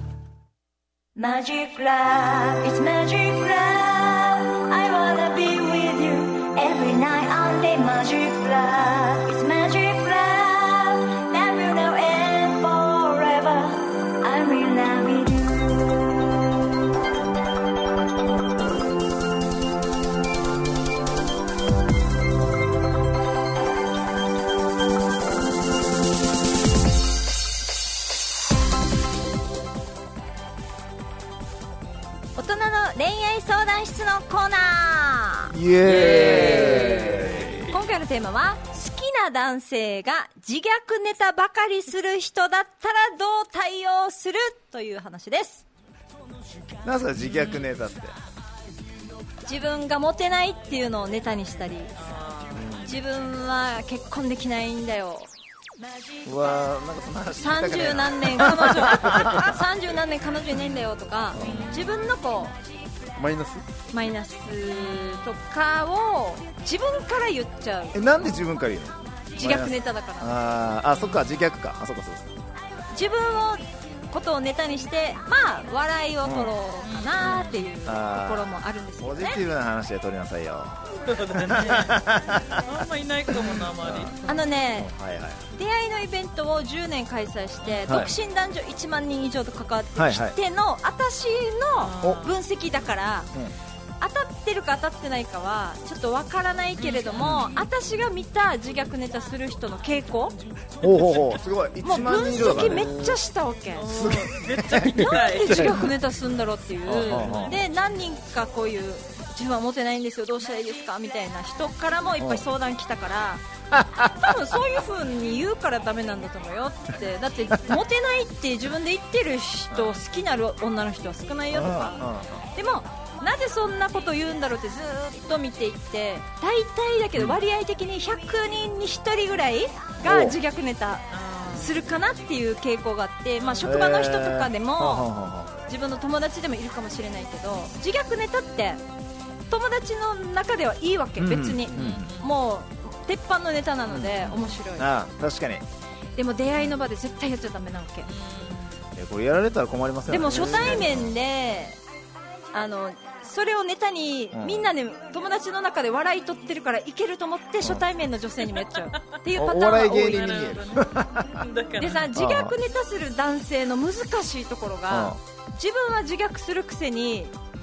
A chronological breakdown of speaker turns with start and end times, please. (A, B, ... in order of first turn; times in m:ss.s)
0:01.2-0:16.1 A
0:32.4-0:45.6 B
0:35.5-0:37.8 C
0:36.1-0:36.8 D
0:36.1-0:37.6 E
0:46.8-0:48.2 C
0:47.2-0:47.7 E
0:49.4-0:51.9 B
0:52.0-0:52.8 E
0:52.6-0:52.8 D
0:52.8-0:55.3 B
0:56.2-0:59.6 C
0:57.4-1:02.6 B
1:01.4-1:02.0 D
1:01.4-1:02.2 E
1:01.4-1:01.7 C
1:03.2-1:03.6 D
1:03.9-1:08.1 B
1:04.6-1:05.3 E
1:07.9-1:12.4 C
1:09.4-1:10.4 B
1:12.9-1:19.4 B
1:16.8-1:17.6 E
1:17.2-1:22.6 C
1:21.0-1:24.5 E
1:23.3-1:24.1 C
1:24.3-1:24.9 B
1:24.8-1:25.5 C
1:25.5-1:33.3 B
1:27.6-1:28.0 E
1:27.9-1:28.1 C
1:30.0-1:30.4 C
1:31.8-1:32.4 E
1:34.0-1:40.4 B
1:36.8-1:37.5 E
1:37.2-1:37.5 C
1:40.8-1:43.0 C
1:41.8-1:44.0 B
1:42.6-1:43.2 D
1:43.8-1:45.9 E
1:43.9-1:45.0 C
1:44.8-1:53.4 B
1:46.9-1:47.6 C
1:53.7-1:54.4 C
1:54.0-2:15.1 B
1:59.7-2:00.0 C
2:01.5-2:02.4 C
2:10.0-2:10.4 C
2:11.1-2:11.8 E
2:13.4-2:13.7 E
2:13.6-2:15.5 C
2:15.7-2:18.8 B
2:19.5-2:24.9 B
2:21.2-2:22.1 C
2:21.7-2:22.3 E
2:23.9-2:25.6 C
2:26.2-2:28.1 B
2:28.1-2:28.7 E
2:29.0-2:31.1 C
2:30.1-2:31.8 B
2:32.5-2:40.4 B
2:34.3-2:34.7 C
2:39.4-2:41.4 C
2:39.9-2:42.1 E
2:41.8-2:47.4 B
2:42.0-2:42.6 C
2:44.9-2:45.2 C